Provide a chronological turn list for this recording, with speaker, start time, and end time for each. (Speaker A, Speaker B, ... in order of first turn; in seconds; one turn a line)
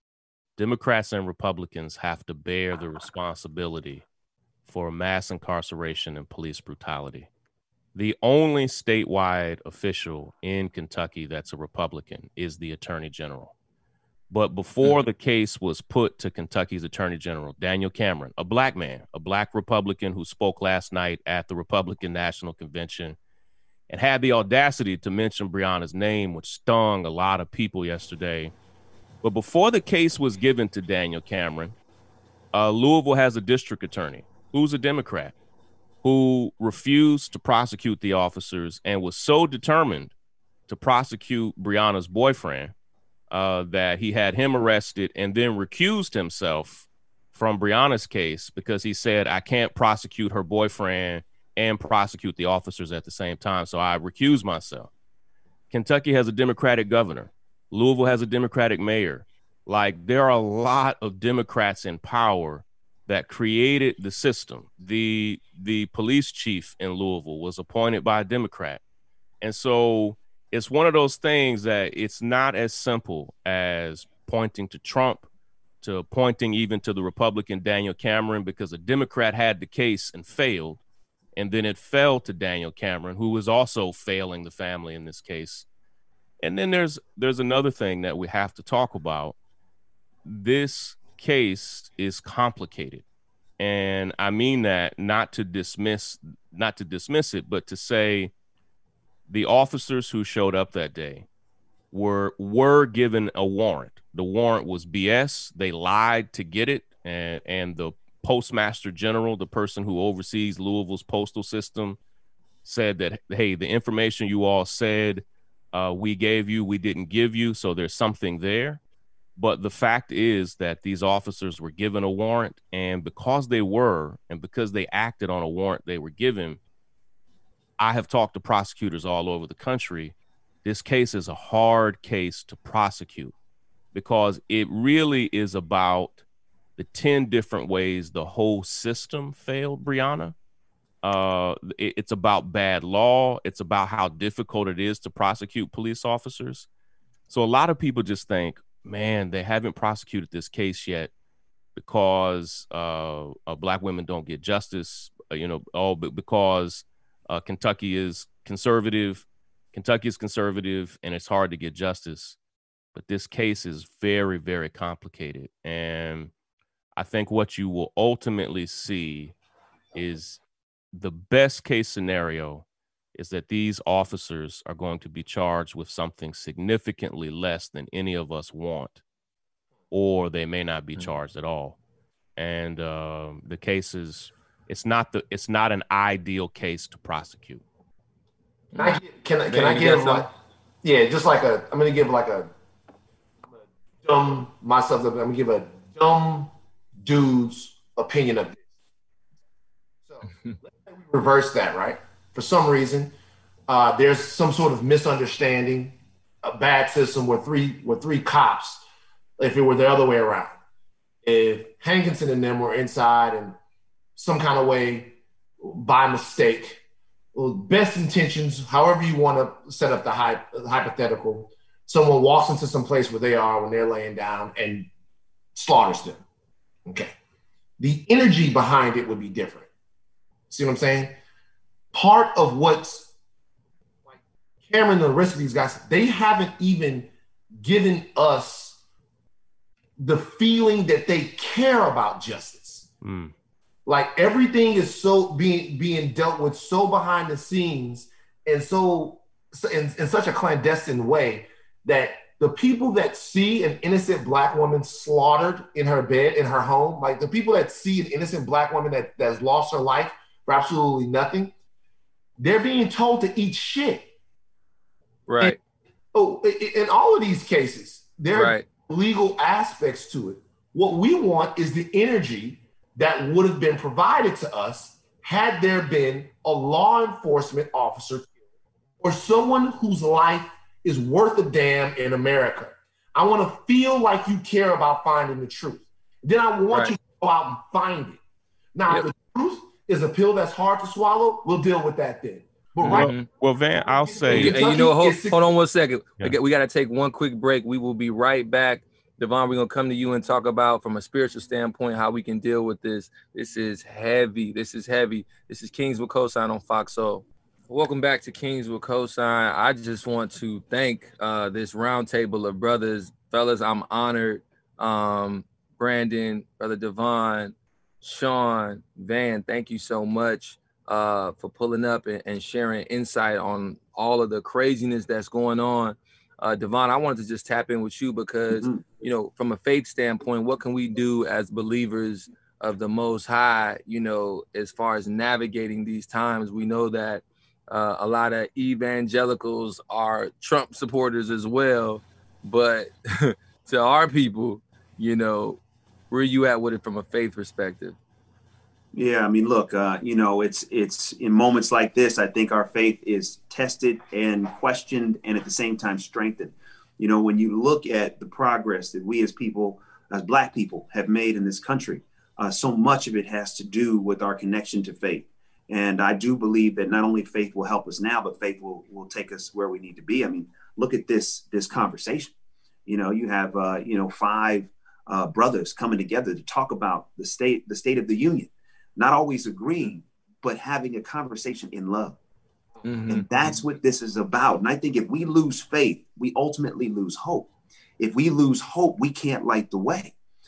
Speaker A: 0.6-4.0
Speaker A: 4.7-7.3
Speaker A: 7.9-13.5
Speaker A: 14.3-23.2
Speaker A: 23.9-28.5
Speaker A: 29.2-31.8
Speaker A: 32.5-35.3
Speaker A: 36.0-40.1
Speaker A: 40.7-42.7
Speaker A: 43.3-54.9
Speaker A: 55.7-68.8
Speaker A: 69.4-75.3
Speaker A: 75.8-80.8
Speaker A: 81.3-85.7
Speaker A: 86.4-89.3
Speaker A: 90.2-93.0
Speaker A: 93.6-98.3
Speaker A: 99.3-101.3
Speaker A: 101.9-112.0
Speaker A: 112.6-118.8
Speaker A: 119.3-126.6
Speaker A: 127.8-133.3
Speaker A: 133.9-136.2
Speaker A: 136.8-140.3
Speaker A: 141.0-146.7
Speaker A: 147.3-151.1
Speaker A: 151.8-162.4
Speaker A: 162.9-166.3
Speaker A: 166.9-169.3
Speaker A: 169.9-170.4
Speaker A: 170.9-179.0
Speaker A: 179.9-181.8
Speaker A: 182.4-187.6
Speaker B: 188.7-190.3
Speaker C: 188.8-190.3
Speaker C: 190.8-192.5
Speaker C: 193.5-198.6
Speaker C: 200.0-203.1
Speaker C: 203.7-208.8
Speaker C: 209.4-210.5
Speaker C: 211.2-213.6
Speaker C: 214.2-216.8
Speaker C: 217.3-224.9
Speaker C: 225.5-226.2
Speaker C: 226.9-227.1
Speaker C: 227.8-229.7
Speaker C: 230.5-231.1
Speaker C: 231.9-233.1
Speaker C: 234.1-237.1
Speaker C: 237.6-238.8
Speaker C: 240.0-242.8
Speaker A: 243.0-243.3
Speaker C: 243.8-261.5
Speaker C: 262.4-264.1
Speaker B: 265.3-265.6
Speaker C: 266.1-278.3
Speaker B: 268.3-268.6
Speaker C: 279.0-288.2
Speaker C: 288.7-293.1
Speaker A: 292.8-294.6
Speaker B: 292.8-293.2
Speaker C: 294.1-295.5
Speaker B: 294.3-348.0
Speaker D: 328.5-328.8
Speaker D: 348.9-372.3
Speaker D: 372.9-382.2
Speaker B: 382.8-383.6
Speaker D: 383.1-390.1